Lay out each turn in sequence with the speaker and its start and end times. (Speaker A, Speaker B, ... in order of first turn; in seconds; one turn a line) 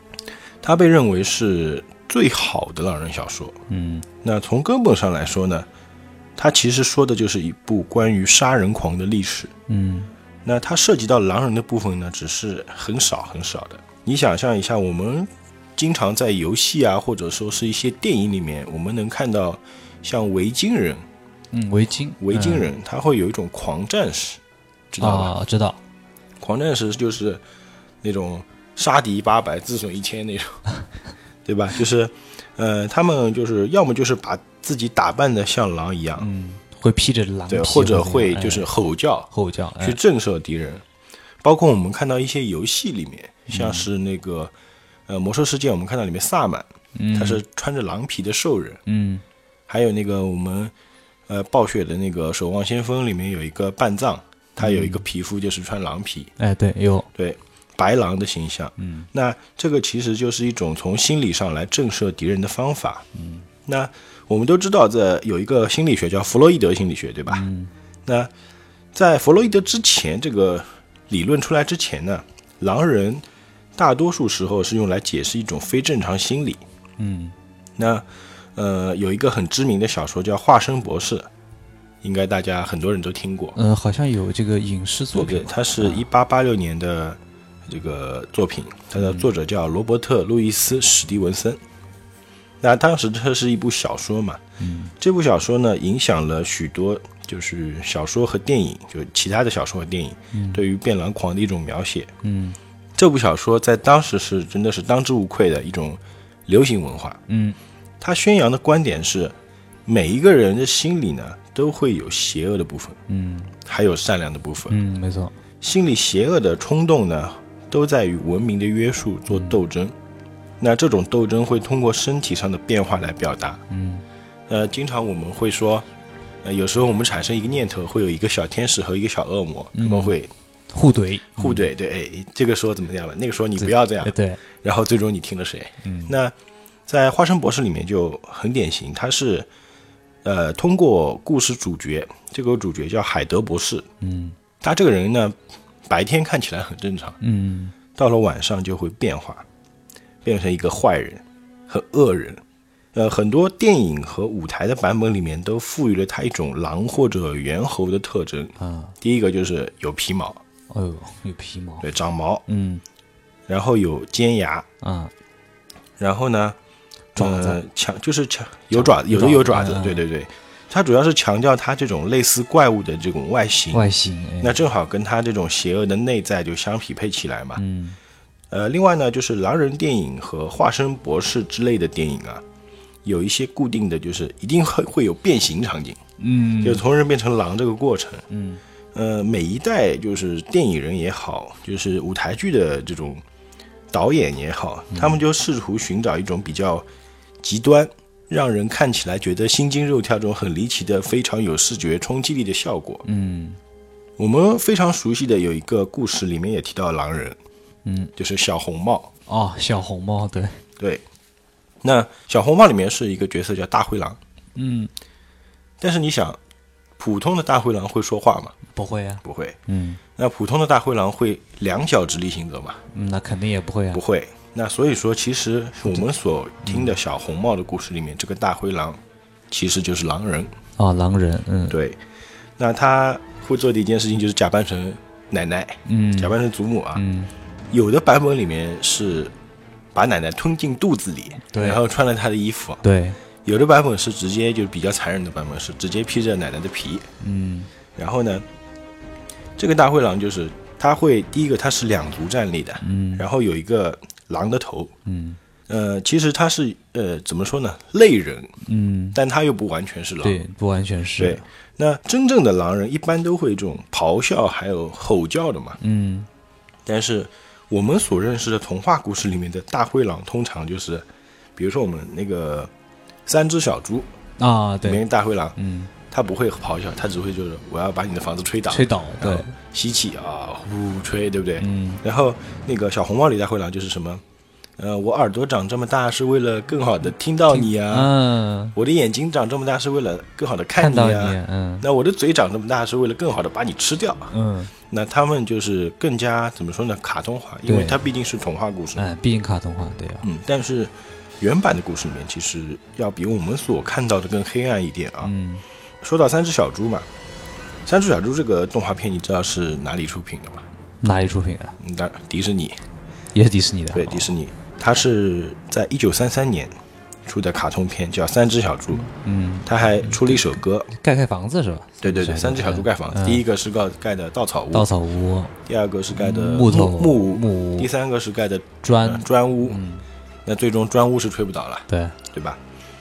Speaker A: 0.6-3.6
Speaker B: 3.7-4.0
Speaker A: 4.2-5.7
Speaker A: 6.4-9.5
Speaker B: 9.7-10.1
Speaker A: 10.4-21.0
Speaker B: 21.5-22.7
Speaker A: 22.2-24.4
Speaker A: 24.9-25.3
Speaker B: 25.0-25.8
Speaker A: 26.4-27.4
Speaker A: 28.0-30.6
Speaker A: 31.4-36.3
Speaker B: 36.2-38.7
Speaker A: 37.5-39.3
Speaker B: 39.3-40.0
Speaker A: 39.8-40.8
Speaker A: 41.4-44.5
Speaker B: 43.5-43.9
Speaker A: 45.1-48.8
Speaker B: 46.9-47.4
Speaker B: 48.9-49.2
Speaker A: 49.7-50.7
Speaker A: 51.3-56.3
Speaker B: 54.6-55.0
Speaker B: 56.4-57.1
Speaker A: 57.1-63.0
Speaker B: 58.8-59.1
Speaker B: 63.1-63.5
Speaker A: 63.7-67.4
Speaker B: 67.3-67.7
Speaker A: 68.0-68.3
Speaker A: 68.9-73.2
Speaker A: 73.8-76.6
Speaker B: 77.0-77.3
Speaker A: 77.8-78.0
Speaker A: 78.5-81.3
Speaker A: 82.0-83.6
Speaker B: 83.5-86.0
Speaker A: 85.1-91.6
Speaker B: 89.0-89.3
Speaker A: 92.6-94.4
Speaker B: 94.6-94.9
Speaker A: 95.0-102.1
Speaker B: 100.3-100.6
Speaker B: 102.2-102.6
Speaker A: 103.0-107.2
Speaker B: 107.3-107.6
Speaker A: 108.0-109.3
Speaker A: 109.8-113.0
Speaker B: 113.1-113.5
Speaker A: 113.6-114.8
Speaker B: 114.7-115.3
Speaker A: 115.6-119.9
Speaker B: 119.3-119.6
Speaker A: 120.6-123.6
Speaker B: 123.7-124.0
Speaker A: 124.5-125.8
Speaker A: 126.4-130.3
Speaker B: 129.7-130.2
Speaker B: 130.7-131.7
Speaker A: 131.4-136.3
Speaker B: 133.6-134.4
Speaker B: 135.8-136.1
Speaker A: 136.9-139.5
Speaker A: 140.2-143.9
Speaker B: 144.0-144.3
Speaker A: 144.6-145.3
Speaker A: 145.9-147.2
Speaker B: 147.2-147.7
Speaker A: 147.9-149.4
Speaker A: 150.2-152.4
Speaker A: 152.9-160.4
Speaker B: 158.6-158.9
Speaker B: 160.7-161.8
Speaker A: 161.8-162.4
Speaker B: 162.5-162.8
Speaker A: 163.5-164.7
Speaker B: 164.8-165.1
Speaker A: 166.0-166.6
Speaker A: 167.1-173.9
Speaker B: 167.2-167.6
Speaker B: 168.7-170.0
Speaker B: 173.7-174.6
Speaker A: 174.4-177.6
Speaker B: 177.6-178.0
Speaker A: 178.5-182.4
Speaker A: 183.0-186.0
Speaker B: 186.2-186.8
Speaker A: 186.6-188.2
Speaker B: 188.3-188.6
Speaker A: 188.9-193.2
Speaker A: 193.9-196.8
Speaker B: 194.9-195.2
Speaker A: 197.4-203.0
Speaker B: 203.0-203.6
Speaker A: 204.2-207.4
Speaker B: 207.8-208.1
Speaker A: 208.2-209.1
Speaker B: 209.3-210.6
Speaker A: 210.8-211.0
Speaker A: 211.8-214.2
Speaker B: 214.5-214.9
Speaker A: 215.8-216.4
Speaker A: 217.0-218.6
Speaker B: 218.7-220.0
Speaker A: 219.2-219.6
Speaker A: 220.2-222.8
Speaker B: 222.9-224.0
Speaker A: 223.9-229.0
Speaker B: 226.6-226.9
Speaker A: 229.5-230.5
Speaker B: 230.8-231.8
Speaker A: 231.7-232.0
Speaker A: 232.6-237.0
Speaker B: 235.8-236.3
Speaker B: 236.9-237.3
Speaker A: 237.7-239.3
Speaker A: 239.9-242.8
Speaker B: 241.5-241.8
Speaker B: 242.8-243.2
Speaker A: 243.4-247.1
Speaker B: 247.2-247.7
Speaker A: 247.9-248.4
Speaker A: 249.6-254.9
Speaker B: 252.8-253.2
Speaker B: 255.0-255.4
Speaker A: 255.7-258.5
Speaker B: 258.6-259.2
Speaker A: 259.1-260.4
Speaker B: 260.2-261.4
Speaker A: 261.2-265.8
Speaker B: 265.8-266.3
Speaker A: 266.9-271.0
Speaker A: 271.6-272.7
Speaker A: 273.3-274.1
Speaker B: 274.4-275.0
Speaker A: 274.8-275.6
Speaker B: 275.6-275.9
Speaker A: 276.1-284.2
Speaker B: 278.7-279.5
Speaker B: 281.6-282.0
Speaker A: 284.8-288.1
Speaker B: 287.5-288.8
Speaker A: 288.7-294.3
Speaker B: 290.8-291.9
Speaker B: 294.3-294.7
Speaker A: 294.9-299.0
Speaker B: 297.6-298.0
Speaker B: 298.9-300.2
Speaker A: 300.2-305.3
Speaker B: 305.2-305.6
Speaker A: 306.0-307.1
Speaker A: 307.9-310.6
Speaker B: 311.0-311.8
Speaker A: 311.8-312.8
Speaker B: 313.3-314.3
Speaker A: 313.9-316.7
Speaker A: 317.2-319.1
Speaker B: 319.0-323.4
Speaker A: 319.6-320.9
Speaker A: 322.0-324.9
Speaker B: 324.7-325.5
Speaker A: 325.6-329.8
Speaker B: 326.1-327.9
Speaker B: 328.8-330.0
Speaker A: 330.4-332.6
Speaker B: 331.9-332.2